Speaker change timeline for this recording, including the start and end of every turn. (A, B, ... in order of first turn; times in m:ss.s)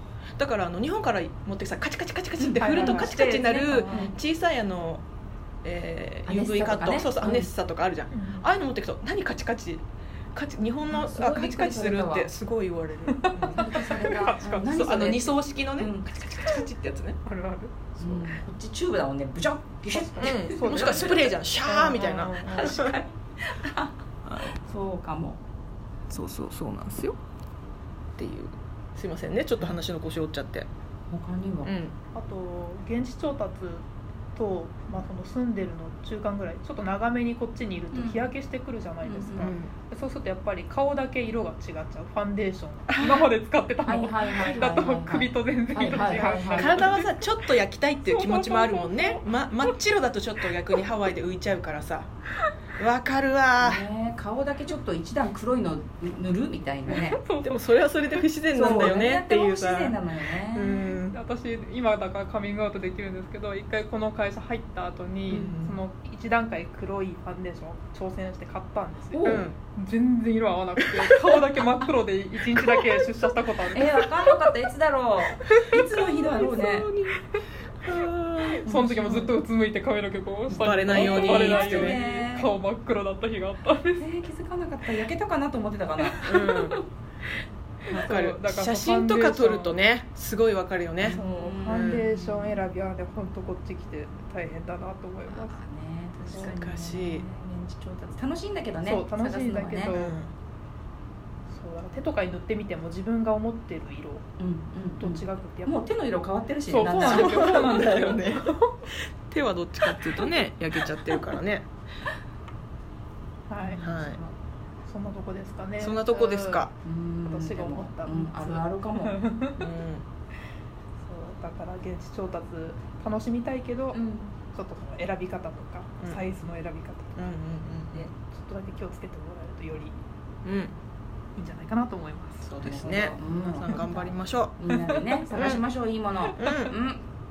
0:00.4-0:05.0 A
0:02.4-0:04.1 B
0:02.6-0:03.2 C
0:03.7-0:04.1 C
0:05.6-0:13.6 A
0:06.2-0:07.5 B
0:08.1-0:08.5 C
0:10.9-0:12.3 B
0:13.1-0:15.2 C
0:13.5-0:16.1 B
0:14.7-0:17.2 A
0:17.2-0:18.4 C
0:18.0-0:21.3 B
0:19.9-0:22.7 C
0:20.2-0:23.0 A
0:22.4-0:25.4 B
0:24.3-0:24.5 A
0:26.1-0:27.2 A
0:28.2-0:30.7 A
0:31.1-0:31.7 B
0:31.6-0:31.9 A
0:32.1-0:33.8 C
0:34.4-0:47.3 C
0:37.9-0:38.3 B
0:39.0-0:39.5 B
0:39.4-0:39.7 A
0:43.8-0:46.9 B
0:46.5-0:52.1 A
0:48.0-0:49.8 C
0:52.8-0:53.9 A
0:53.6-0:57.2 B
0:56.9-0:58.3 C
0:57.4-1:01.2 A
0:58.5-1:01.0 B
1:01.1-1:14.5 C
1:05.3-1:05.8 A
1:05.3-1:05.5 B
1:09.1-1:09.5 B
1:09.2-1:09.6 A
1:13.7-1:16.9 B
1:15.5-1:15.9 C
1:16.0-1:17.2 A
1:17.8-1:18.7 A
1:18.6-1:24.0 C
1:18.6-1:19.4 B
1:20.5-1:22.5 B
1:20.5-1:22.0 A
1:24.0-1:26.6 B
1:26.0-1:26.6 C
1:26.2-1:26.8 A
1:27.8-1:29.8 C
1:27.9-1:32.0 A
1:31.0-1:32.6 B
1:31.0-1:35.6 C
1:35.3-1:37.4 B
1:36.2-1:37.2 A
1:36.2-1:38.2 C
1:38.1-1:40.0 B
1:38.8-1:40.2 C
1:39.9-1:40.3 A
1:41.5-1:44.2 C
1:44.4-1:48.2 B
1:45.0-1:45.8 C
1:46.6-1:48.7 C
1:46.9-1:48.5 A
1:49.3-1:51.7 A
1:49.9-1:50.3 C
1:53.5-1:54.1 C
1:53.6-1:54.3 B
1:53.8-1:54.2 A
1:54.8-1:56.7 C
1:55.8-1:56.7 A
1:56.8-1:59.2 B
1:57.2-1:59.6 C
1:59.6-2:00.0 A
2:01.0-2:04.0 C
2:03.9-2:04.3 B
2:04.5-2:10.0 C
2:07.2-2:08.1 A
2:10.4-2:10.7 A
2:11.4-2:12.5 C
2:12.4-2:14.6 A
2:12.6-2:17.0 B
2:14.7-2:15.6 C
2:15.3-2:15.6 A
2:16.2-2:16.7 C
2:16.4-2:16.7 A